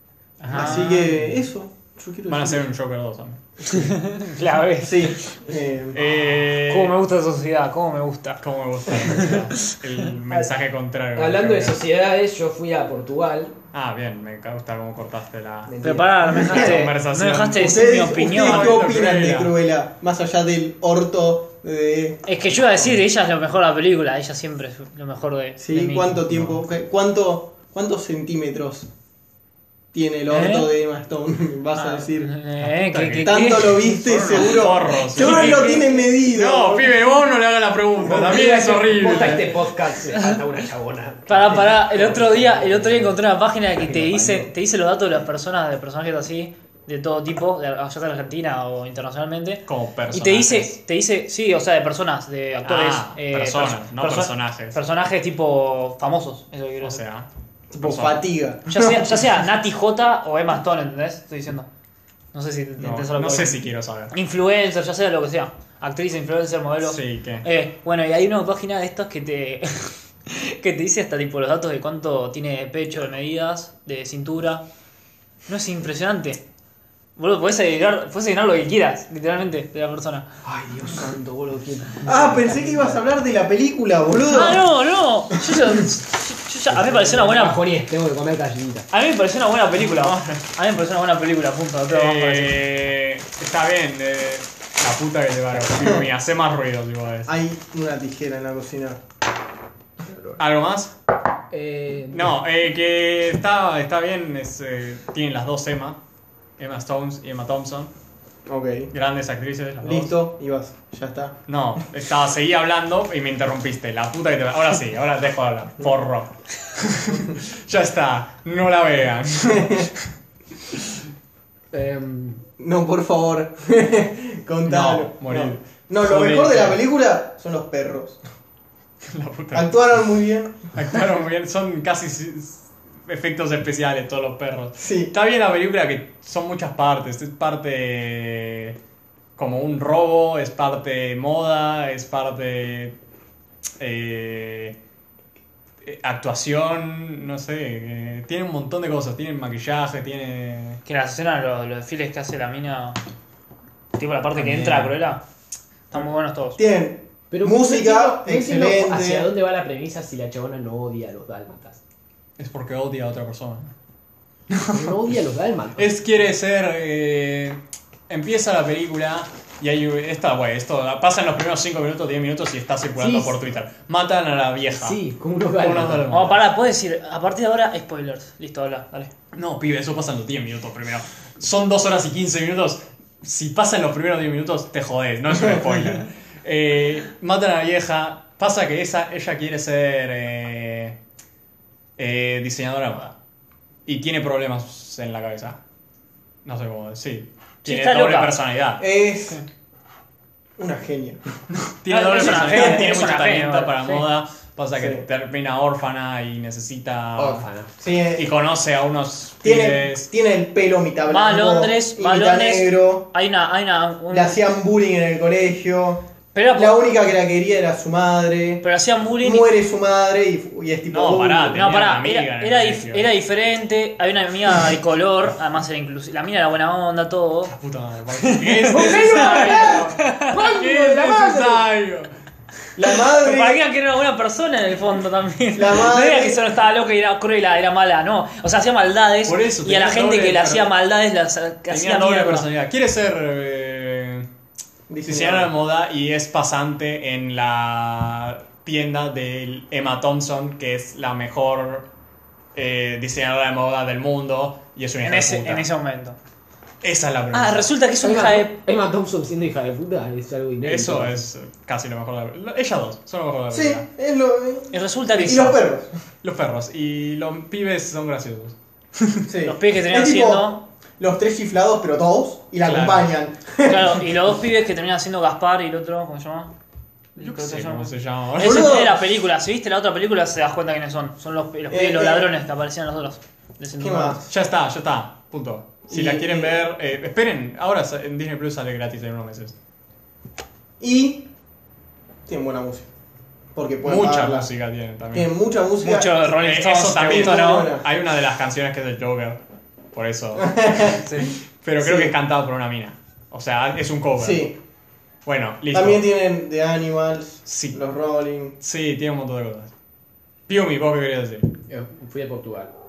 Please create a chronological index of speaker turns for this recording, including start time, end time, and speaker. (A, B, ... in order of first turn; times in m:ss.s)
0:00.4-0:01.2 A
0:00.5-0:02.7 B
0:02.3-0:03.4 C
0:03.7-0:05.4 A
0:04.8-0:06.0 B
0:05.9-0:07.0 C
0:06.5-0:08.4 A
0:08.4-0:11.8 C
0:09.0-0:09.5 A
0:11.2-0:13.6 D
0:13.7-0:15.9 C
0:15.7-0:16.4 D
0:15.8-0:18.7 A
0:16.3-0:16.8 B
0:16.4-0:19.5 C
0:17.6-0:22.3 B
0:22.3-0:26.6 A
0:25.6-0:28.9 B
0:29.9-0:32.3 B
0:30.3-0:30.7 A
0:31.7-0:34.6 A
0:32.6-0:39.7 C
0:33.2-0:37.0 B
0:35.2-0:36.1 A
0:38.0-0:43.2 D
0:40.1-0:40.4 A
0:41.3-0:57.0 A
0:43.7-0:44.5 D
0:49.7-0:50.8 C
0:52.6-0:54.8 C
0:56.8-0:57.3 C
0:57.7-0:58.8 B
0:57.8-0:58.2 C
0:58.7-1:01.7 A
1:02.3-1:14.6 A
1:02.8-1:04.2 C
1:06.8-1:07.5 C
1:15.5-1:16.4 A
1:17.2-1:20.3 A
1:20.4-1:23.0 D
1:22.1-1:24.6 B
1:24.2-1:27.6 A
1:26.7-1:28.9 D
1:28.9-1:32.6 A
1:29.8-1:30.5 C
1:31.9-1:37.3 C
1:35.7-1:36.1 B
1:37.3-1:39.0 B
1:40.0-1:40.4 D
1:40.4-1:40.9 C
1:41.5-1:42.3 D
1:42.1-1:46.0 C
1:46.6-1:47.9 C
1:48.5-1:48.9 B
1:48.9-1:50.2 C
1:49.8-1:51.4 B
1:51.5-2:00.1 C
2:01.7-2:02.4 D
2:02.6-2:08.2 B
2:04.7-2:06.8 C
2:09.1-2:09.8 C
2:09.5-2:11.1 B
2:10.7-2:18.8 C
2:14.8-2:15.1 B
2:19.4-2:23.0 C
2:23.8-2:24.8 C
2:25.8-2:30.8 C
2:30.8-2:33.0 A
2:34.0-2:35.2 A
2:34.3-2:34.9 D
2:35.9-2:36.6 A
2:36.6-2:39.3 B
2:37.3-2:41.8 D
2:42.4-2:43.7 C
2:44.5-2:45.0 C
2:44.7-2:45.9 D
2:45.8-2:55.0 C
2:53.0-2:53.4 D
2:54.7-2:56.1 D
2:55.6-2:56.5 C
2:56.1-2:59.1 A
2:59.3-3:11.0 C
3:12.0-3:13.2 C
3:13.9-3:15.6 C
3:16.4-3:18.8 C
3:17.6-3:18.4 A
3:18.8-3:19.4 B
3:20.6-3:21.2 B
3:21.5-3:27.5 C
3:21.9-3:24.0 A
3:22.2-3:23.0 B
3:24.7-3:25.0 B
3:27.2-3:27.7 D
3:27.8-3:28.4 B
3:28.2-3:30.1 C
3:29.4-3:33.1 B
3:31.1-3:34.4 A
3:34.1-3:38.6 B
3:36.4-3:36.9 A
3:38.6-3:39.5 A
3:39.2-3:41.7 B
3:40.9-3:43.1 C
3:41.5-3:47.5 A
3:47.5-3:52.1 C
3:48.3-3:50.4 A
3:48.7-3:49.9 B
3:50.3-3:51.7 D
3:52.8-3:53.6 B
3:53.0-4:02.5 A
3:55.6-3:56.4 B
3:59.2-4:00.8 C
4:01.7-4:04.3 C
4:04.9-4:05.5 B
4:05.1-4:11.9 C
4:12.6-4:15.7 C
4:15.0-4:16.2 A
4:16.8-4:17.7 C
4:17.3-4:18.5 A
4:18.0-4:21.3 D
4:20.6-4:23.9 C
4:23.5-4:25.9 B
4:24.7-4:25.5 A
4:25.2-4:25.6 C
4:26.2-4:29.3 C
4:29.3-4:34.2 B
4:29.4-4:30.6 A
4:32.6-4:33.1 C
4:33.7-4:36.5 A
4:37.2-4:44.2 A
4:37.2-4:38.6 C
4:38.4-4:39.1 B
4:41.7-4:42.3 B
4:43.8-4:44.3 B
4:44.3-4:49.6 C
4:45.9-4:46.6 B
4:50.8-4:51.3 B
4:52.3-4:52.9 B
4:53.6-4:54.5 B
4:53.8-4:55.3 C
4:55.1-4:56.3 B
4:55.8-4:57.7 A
4:56.3-4:59.4 C
4:57.0-4:57.9 B
4:59.9-5:04.5 C
5:00.4-5:02.2 B
5:01.1-5:01.4 A
5:04.2-5:04.6 B
5:05.2-5:06.1 C
5:05.7-5:08.6 B
5:07.4-5:07.8 C
5:08.6-5:09.7 C
5:10.5-5:11.5 C
5:11.7-5:12.7 D